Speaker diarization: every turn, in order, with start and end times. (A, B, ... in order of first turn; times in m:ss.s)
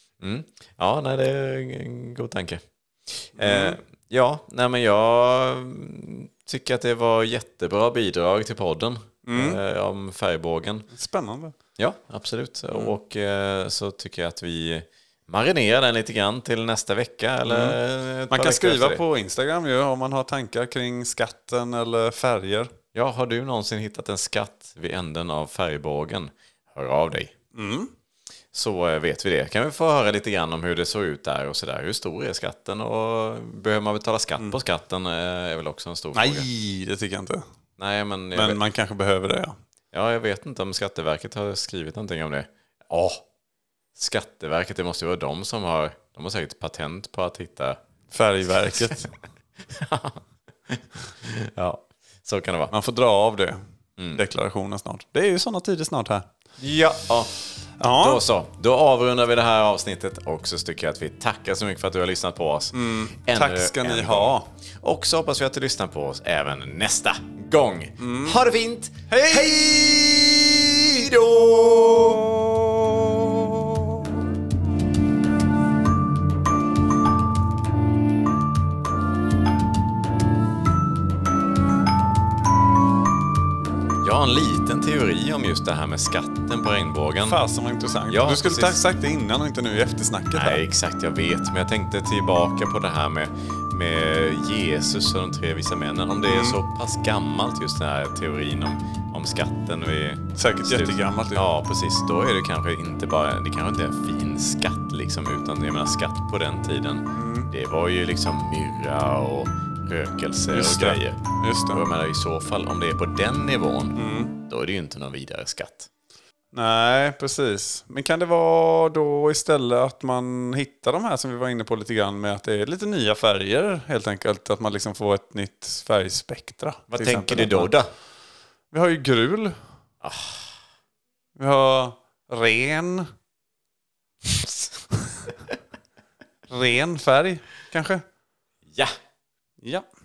0:00.2-0:10.9 A
0:03.4-0:03.8 B
0:09.2-0:09.6 B
0:10.9-0:11.5 B
0:11.8-0:19.0 A
0:17.5-0:17.8 B
0:18.3-0:22.7 B
0:22.9-0:27.3 A
0:27.5-0:27.9 B
0:28.5-0:36.4 A
0:36.1-0:37.4 B
0:37.8-0:38.6 A
0:38.3-0:39.5 B
0:39.9-0:43.2 A
0:44.0-0:47.8 A
0:48.1-0:49.1 B
0:49.7-0:52.7 A
0:52.7-0:53.6 B
0:54.1-0:56.2 B
0:56.6-0:57.3 A
0:57.8-0:58.2 B
0:58.0-1:12.3 A
1:02.7-1:04.5 B
1:08.0-1:08.4 B
1:09.1-1:09.8 B
1:11.9-1:14.0 B
1:24.0-1:27.4 A
1:27.2-1:30.6 B
1:28.1-1:28.8 A
1:30.3-1:51.2 A
1:36.2-1:36.6 B
1:40.4-1:41.4 B
1:47.1-1:47.5 B
1:50.5-1:51.8 B
1:51.7-1:54.0 A
1:53.9-1:54.3 B
1:54.5-1:55.9 A
1:56.5-2:07.7 B
2:07.0-2:07.9 A
2:08.7-2:09.5 B
2:10.0-2:10.5 A
2:11.4-2:13.1 B
2:16.5-2:18.0 B